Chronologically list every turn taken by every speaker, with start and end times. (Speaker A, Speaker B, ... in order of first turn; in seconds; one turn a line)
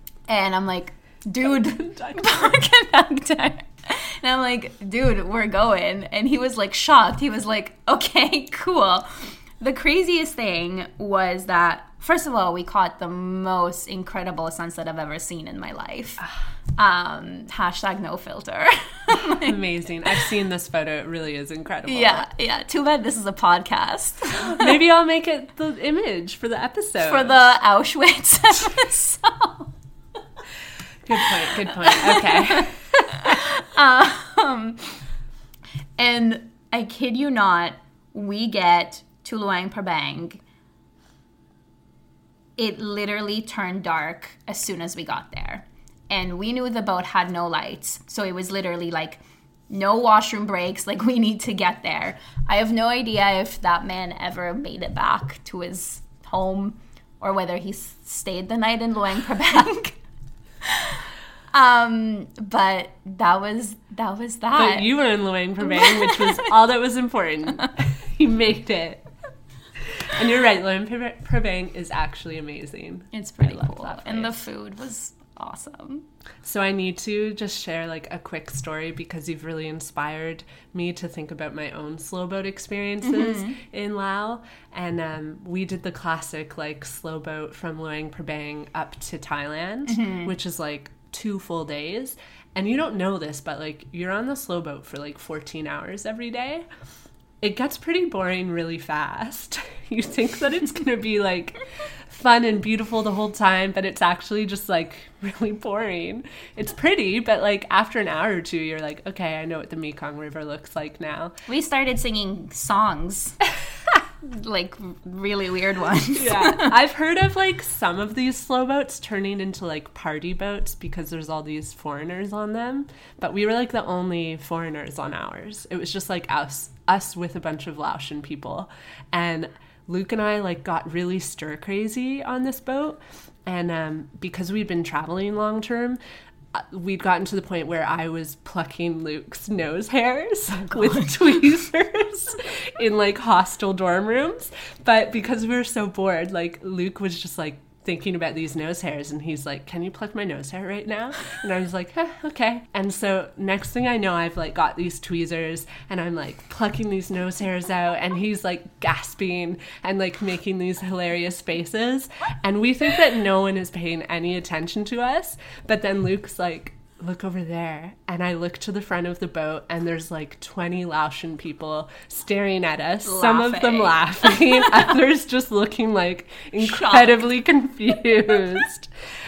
Speaker A: 0.3-16.2
Speaker B: 1.4-2.5
Speaker A: 16.8-19.6
Speaker B: 19.2-22.3
Speaker A: 21.9-24.8
Speaker B: 24.4-27.4
Speaker A: 27.0-29.7
Speaker B: 31.1-32.8
Speaker A: 31.3-35.0
Speaker A: 36.0-40.4
Speaker A: 42.6-60.0
Speaker A: 60.6-64.9
Speaker B: 64.5-69.0
Speaker A: 65.6-66.5
Speaker B: 69.9-74.3
Speaker A: 73.1-76.0
Speaker B: 76.4-96.6
Speaker A: 83.0-83.6
Speaker A: 89.9-90.3
Speaker B: 97.4-111.4
Speaker A: 111.5-113.4
Speaker A: 114.2-116.7
Speaker B: 116.2-136.0
Speaker B: 136.5-178.9
Speaker A: 173.0-174.9
Speaker A: 176.6-177.3